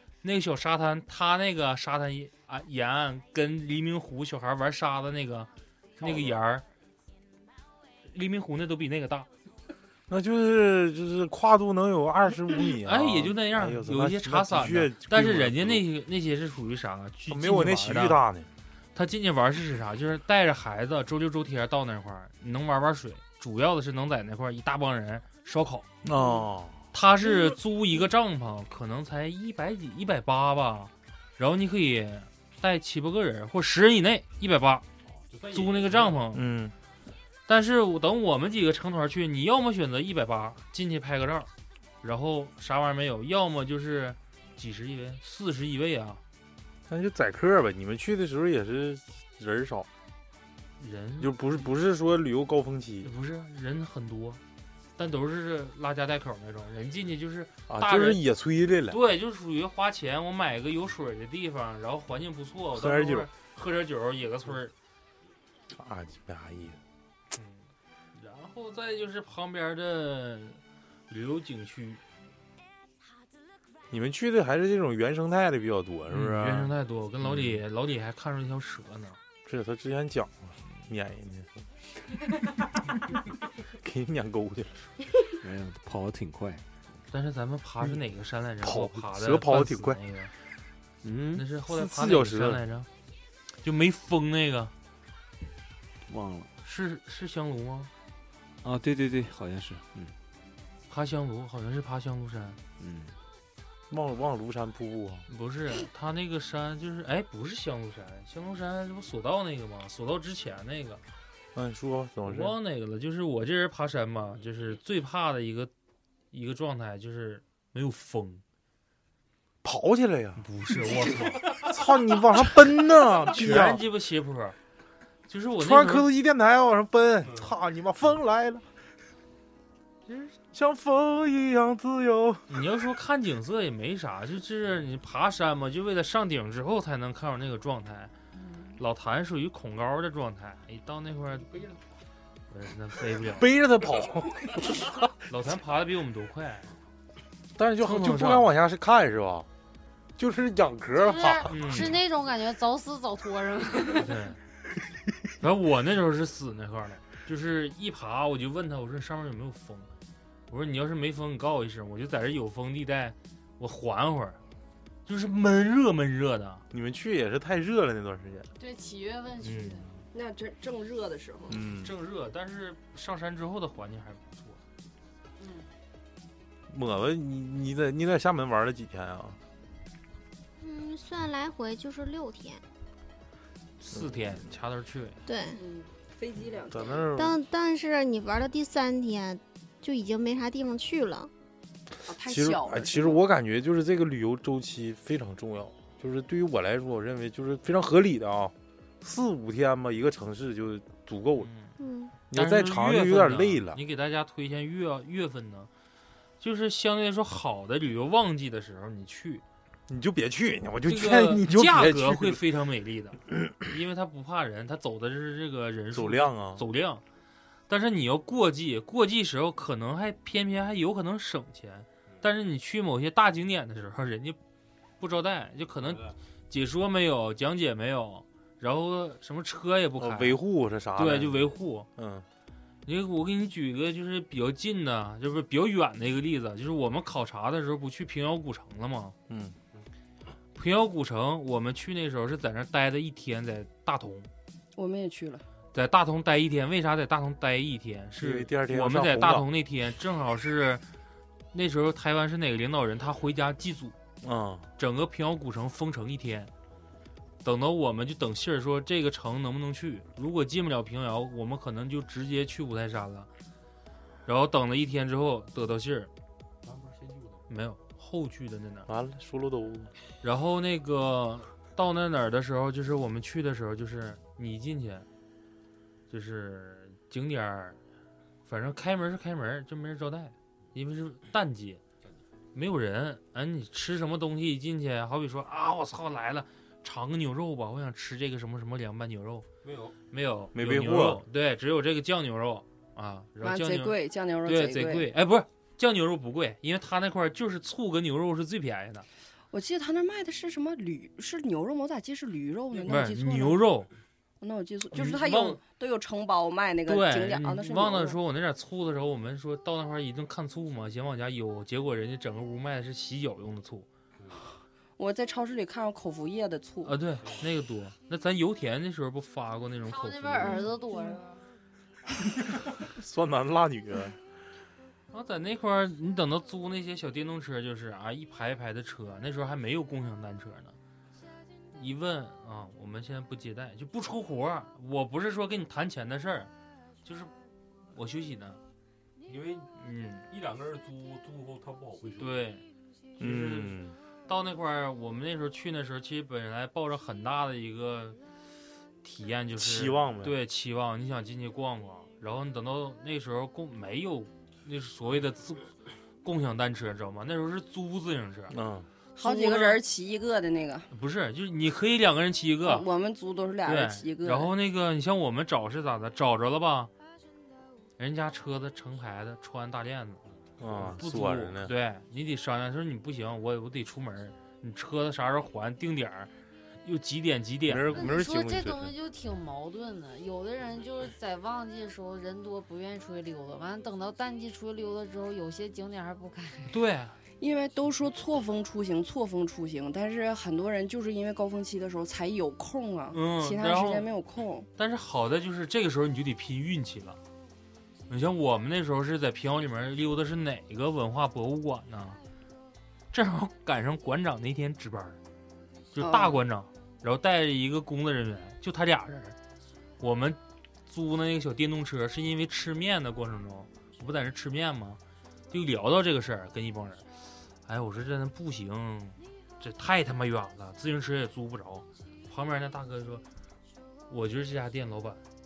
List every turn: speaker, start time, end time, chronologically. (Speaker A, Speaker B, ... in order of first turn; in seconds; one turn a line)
Speaker A: 0.2-6.6
Speaker B: 6.0-6.3
Speaker A: 8.1-9.3
Speaker C: 10.1-15.8
Speaker A: 12.8-18.2
Speaker C: 17.3-18.5
Speaker A: 18.9-25.9
Speaker C: 26.0-26.8
Speaker A: 26.9-34.9
Speaker B: 35.1-36.2
Speaker A: 35.5-36.5
Speaker C: 36.3-36.7
Speaker A: 37.5-41.5
Speaker A: 42.0-46.2
Speaker C: 46.9-49.9
Speaker A: 50.8-51.6
Speaker C: 51.2-53.1
Speaker A: 53.0-54.4
Speaker A: 55.0-58.2
Speaker C: 57.7-59.0
Speaker A: 58.9-64.7
Speaker C: 62.7-63.3
Speaker C: 65.7-66.8
Speaker A: 67.3-72.0
Speaker C: 73.9-76.7
Speaker A: 76.1-79.2
Speaker C: 79.4-81.7
Speaker C: 83.7-84.9
Speaker D: 85.4-86.6
Speaker A: 87.1-90.3
Speaker C: 88.6-90.0
Speaker D: 91.0-91.4
Speaker A: 91.3-92.9
Speaker C: 91.6-92.6
Speaker A: 93.6-94.7
Speaker D: 96.0-96.5
Speaker A: 96.6-97.9
Speaker D: 98.6-100.1
Speaker A: 100.9-102.6
Speaker D: 102.8-103.2
Speaker C: 103.9-105.3
Speaker A: 105.3-111.0
Speaker C: 111.5-112.6
Speaker A: 112.2-115.7
Speaker A: 116.3-118.4
Speaker C: 119.6-120.4
Speaker A: 120.4-121.6
Speaker C: 121.5-123.8
Speaker A: 123.3-124.6
Speaker A: 125.3-126.1
Speaker C: 125.6-128.7
Speaker B: 127.2-127.5
Speaker A: 130.1-130.3
Speaker C: 130.4-132.5
Speaker A: 132.5-138.1
Speaker A: 138.8-141.5
Speaker B: 141.5-141.8
Speaker A: 142.5-143.5
Speaker C: 143.2-144.9
Speaker A: 145.3-146.7
Speaker C: 147.6-149.5
Speaker A: 147.8-148.5
Speaker C: 150.2-152.0
Speaker E: 151.0-154.2
Speaker A: 151.4-152.0
Speaker A: 153.9-154.4
Speaker A: 155.4-159.9
Speaker A: 160.5-164.4
Speaker A: 165.1-166.6
Speaker C: 166.7-168.5
Speaker E: 168.6-169.9
Speaker A: 169.4-170.0
Speaker F: 170.1-171.6
Speaker C: 171.5-171.9
Speaker A: 171.7-174.6
Speaker E: 175.4-175.7
Speaker C: 176.7-179.4
Speaker G: 180.6-182.6
Speaker A: 183.8-185.2
Speaker G: 185.2-185.6
Speaker F: 185.6-187.1
Speaker C: 186.7-187.4
Speaker G: 187.2-191.3
Speaker F: 192.0-193.2
Speaker C: 192.2-201.5
Speaker A: 201.4-201.7
Speaker G: 201.8-202.1
Speaker C: 202.3-203.8
Speaker A: 202.3-205.7
Speaker A: 206.4-209.4
Speaker C: 209.9-212.4
Speaker A: 210.8-217.0
Speaker C: 215.9-216.6
Speaker A: 217.7-224.4
Speaker A: 225.0-230.4
Speaker B: 225.8-226.2
Speaker C: 230.0-232.2
Speaker A: 230.9-231.9
Speaker A: 232.8-239.2
Speaker C: 239.3-239.6
Speaker A: 240.6-244.3
Speaker F: 244.7-245.4
Speaker A: 245.7-250.8
Speaker C: 248.2-249.5
Speaker A: 251.5-254.0
Speaker C: 254.2-254.7
Speaker A: 254.8-256.5
Speaker A: 257.4-263.3
Speaker A: 264.2-266.1
Speaker B: 266.6-267.4
Speaker A: 267.5-268.9
Speaker C: 268.9-269.9
Speaker A: 270.2-275.1
Speaker A: 276.1-277.8
Speaker A: 278.4-281.8
Speaker A: 282.5-289.5
Speaker B: 289.6-290.0
Speaker A: 290.1-299.1
Speaker C: 290.5-291.2
Speaker F: 293.4-295.1
Speaker F: 299.5-303.6
Speaker A: 302.9-303.9
Speaker F: 304.4-308.2
Speaker A: 304.9-305.6
Speaker A: 306.9-313.9
Speaker F: 315.0-317.0
Speaker A: 316.8-320.7
Speaker B: 317.2-317.4
Speaker E: 319.8-321.4
Speaker F: 320.5-321.2
Speaker C: 322.9-324.2
Speaker A: 325.1-330.8
Speaker A: 331.7-336.5
Speaker A: 337.0-337.3
Speaker A: 337.9-338.6
Speaker B: 339.2-339.7
Speaker A: 339.8-340.2
Speaker B: 340.3-342.5
Speaker A: 342.2-342.6
Speaker A: 343.2-348.2
Speaker C: 343.2-343.9
Speaker A: 349.0-355.7
Speaker C: 349.6-350.4
Speaker A: 356.2-358.5
Speaker C: 358.5-358.9
Speaker F: 359.1-360.9
Speaker A: 359.2-359.8
Speaker A: 360.9-362.9
Speaker F: 362.6-364.5
Speaker A: 363.6-366.9
Speaker A: 368.0-370.2
Speaker C: 370.6-371.7
Speaker A: 370.8-376.3
Speaker A: 376.8-378.1
Speaker C: 377.7-378.9
Speaker E: 377.9-386.8
Speaker A: 386.7-387.2
Speaker F: 387.4-394.7
Speaker A: 393.1-394.1
Speaker A: 394.8-397.2
Speaker A: 398.1-402.2
Speaker A: 403.1-405.2
Speaker A: 405.9-409.4
Speaker F: 406.0-406.4
Speaker A: 410.0-415.0
Speaker A: 415.5-417.1
Speaker A: 417.6-423.2
Speaker A: 424.1-425.2